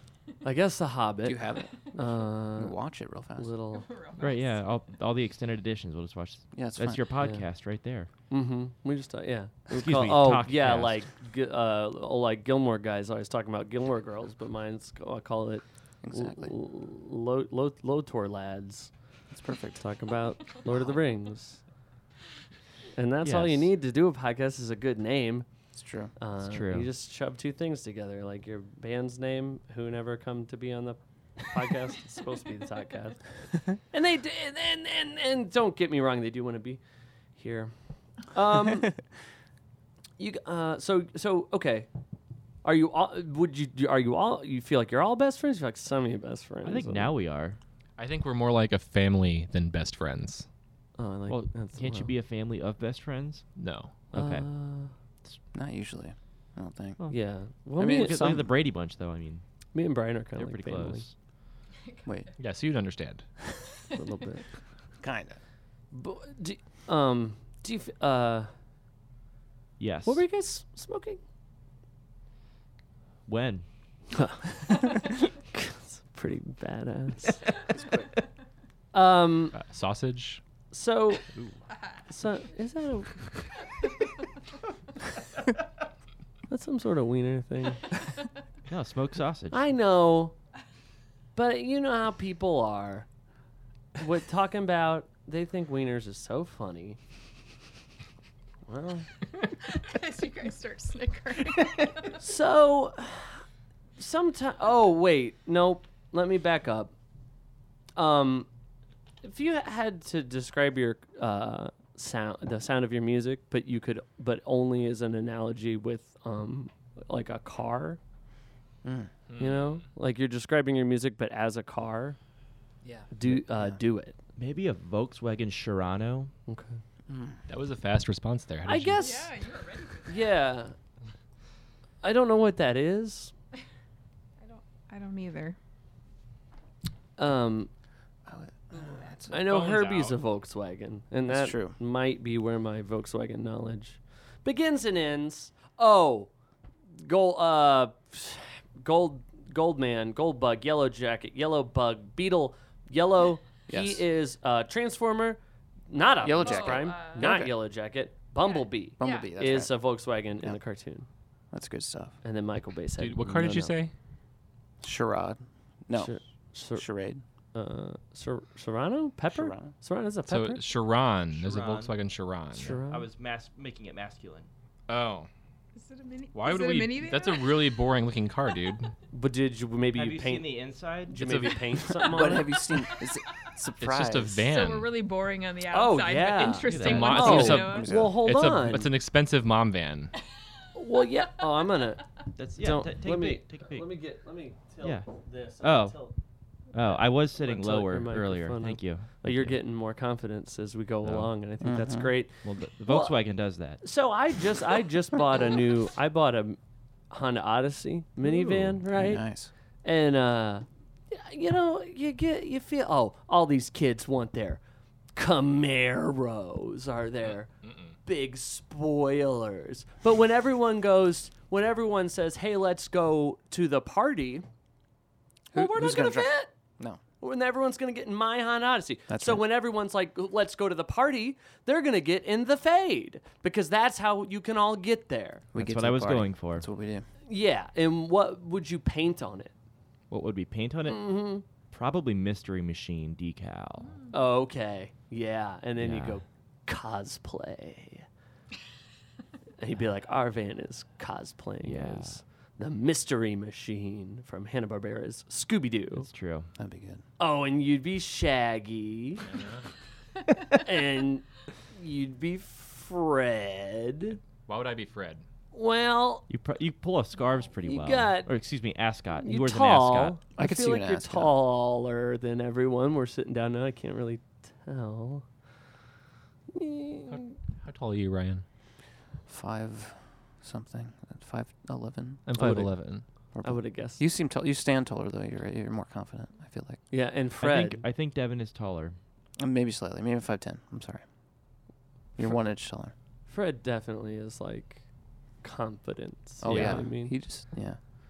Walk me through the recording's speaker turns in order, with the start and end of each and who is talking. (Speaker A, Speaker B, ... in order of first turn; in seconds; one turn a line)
Speaker A: 0.4-2.8
Speaker B: 1.2-1.8
Speaker B: 2.3-3.5
Speaker A: 3.4-3.9
Speaker C: 3.7-4.7
Speaker D: 4.2-8.1
Speaker B: 6.5-7.0
Speaker A: 7.2-7.5
Speaker A: 8.3-18.9
Speaker D: 9.7-11.0
Speaker B: 16.0-16.5
Speaker B: 19.3-19.9
Speaker A: 19.8-21.6
Speaker B: 20.6-21.0
Speaker A: 22.9-25.5
Speaker D: 23.2-23.7
Speaker B: 25.7-26.1
Speaker A: 26.2-36.8
Speaker D: 26.4-26.9
Speaker A: 37.3-39.0
Speaker A: 40.2-41.9
Speaker A: 42.6-47.1
Speaker D: 46.6-47.6
Speaker E: 48.0-50.5
Speaker A: 51.0-52.1
Speaker D: 51.3-53.5
Speaker E: 53.6-53.9
Speaker D: 54.1-54.5
Speaker A: 54.1-54.9
Speaker B: 55.5-57.0
Speaker A: 57.1-58.3
Speaker B: 57.8-58.5
Speaker D: 57.8-59.4
Speaker A: 59.7-61.0
Speaker D: 60.4-61.1
Speaker E: 62.4-63.2
Speaker A: 63.9-64.4
Speaker B: 65.0-65.4
Speaker A: 65.9-68.5
Speaker D: 69.8-70.2
Speaker A: 70.0-71.2
Speaker D: 73.3-73.7
Speaker A: 74.1-77.5
Speaker B: 77.8-78.0
Speaker A: 78.9-79.6
Speaker E: 79.5-80.4
Speaker A: 80.7-81.3
Speaker A: 82.1-83.4
Speaker A: 86.5-88.0
Speaker D: 88.7-89.6
Speaker A: 89.5-90.4
Speaker A: 91.3-93.1
Speaker A: 94.0-97.0
Speaker A: 98.7-99.1
Speaker C: 99.7-102.2
Speaker A: 102.0-103.4
Speaker A: 104.0-106.9
Speaker A: 108.0-108.5
Speaker A: 109.2-118.0
Speaker B: 118.8-119.1
Speaker E: 119.3-119.8
Speaker A: 119.4-122.2
Speaker B: 122.8-123.8
Speaker A: 123.1-124.2
Speaker D: 124.3-126.3
Speaker A: 126.5-126.8
Speaker B: 127.1-127.4
Speaker E: 127.5-129.1
Speaker A: 128.6-129.3
Speaker C: 129.0-130.4
Speaker A: 130.1-130.7
Speaker A: 132.0-133.3
Speaker C: 134.4-135.6
Speaker A: 137.2-137.7
Speaker B: 138.2-139.5
Speaker A: 139.3-146.3
Speaker E: 139.3-140.2
Speaker B: 141.3-141.8
Speaker A: 146.9-161.1
Speaker B: 153.7-154.0
Speaker B: 156.2-157.5
Speaker C: 156.3-157.3
Speaker C: 158.4-159.4
Speaker B: 159.0-159.7
Speaker B: 161.5-162.2
Speaker A: 162.2-163.8
Speaker E: 163.0-163.9
Speaker B: 164.8-166.1
Speaker A: 165.9-166.9
Speaker B: 166.7-167.2
Speaker A: 167.5-170.6
Speaker B: 169.3-169.7
Speaker E: 170.3-172.8
Speaker D: 171.3-171.9
Speaker A: 172.5-173.1
Speaker D: 172.8-174.5
Speaker E: 174.9-175.3
Speaker C: 175.7-177.8
Speaker E: 176.3-178.9
Speaker A: 179.1-182.6
Speaker D: 179.9-181.5
Speaker E: 181.2-181.6
Speaker B: 182.0-184.4
Speaker E: 183.8-184.9
Speaker C: 184.4-187.9
Speaker A: 185.7-188.9
Speaker D: 186.7-187.5
Speaker E: 186.8-190.1
Speaker B: 187.5-188.2
Speaker A: 190.7-196.2
Speaker D: 192.3-193.9
Speaker D: 194.8-195.1
Speaker D: 195.6-196.1
Speaker D: 196.7-199.6
Speaker A: 196.8-203.2
Speaker D: 201.0-201.3
Speaker B: 201.6-202.1
Speaker D: 202.4-203.8
Speaker A: 203.8-206.6
Speaker A: 207.1-209.2
Speaker D: 208.2-208.8
Speaker B: 208.9-209.5
Speaker A: 209.8-214.6
Speaker A: 215.1-217.5
Speaker E: 217.3-217.9
Speaker A: 218.0-224.4
Speaker B: 225.5-227.0
Speaker A: 225.5-226.5
Speaker A: 227.2-235.4
Speaker B: 229.1-229.4
Speaker B: 235.5-237.1
Speaker D: 235.6-236.7
Speaker A: 237.3-239.5
Speaker D: 240.1-244.0
Speaker A: 240.9-241.4
Speaker A: 244.1-248.1
Speaker D: 245.8-246.2
Speaker A: 249.6-256.1
Speaker D: 251.6-252.2
Speaker D: 256.0-256.5
Speaker B: 256.6-257.0
Speaker A: 257.2-259.3
Speaker E: 259.2-259.7
Speaker A: 260.5-264.2
Speaker E: 264.4-265.2
Speaker A: 265.5-266.3
Speaker D: 266.3-270.2
Speaker A: 267.6-268.3
Speaker A: 269.1-275.2
Speaker B: 270.4-271.3
Speaker A: 276.5-277.4
Speaker E: 277.1-278.4
Speaker B: 279.3-282.2
Speaker E: 282.3-283.0
Speaker A: 282.3-282.7
Speaker B: 283.3-286.8
Speaker A: 283.4-284.0
Speaker A: 286.9-287.8
Speaker D: 287.4-289.0
Speaker B: 289.4-291.0
Speaker B: 292.1-292.9
Speaker A: 293.3-294.8
Speaker A: 295.4-297.1
Speaker B: 296.4-297.8
Speaker D: 296.4-296.8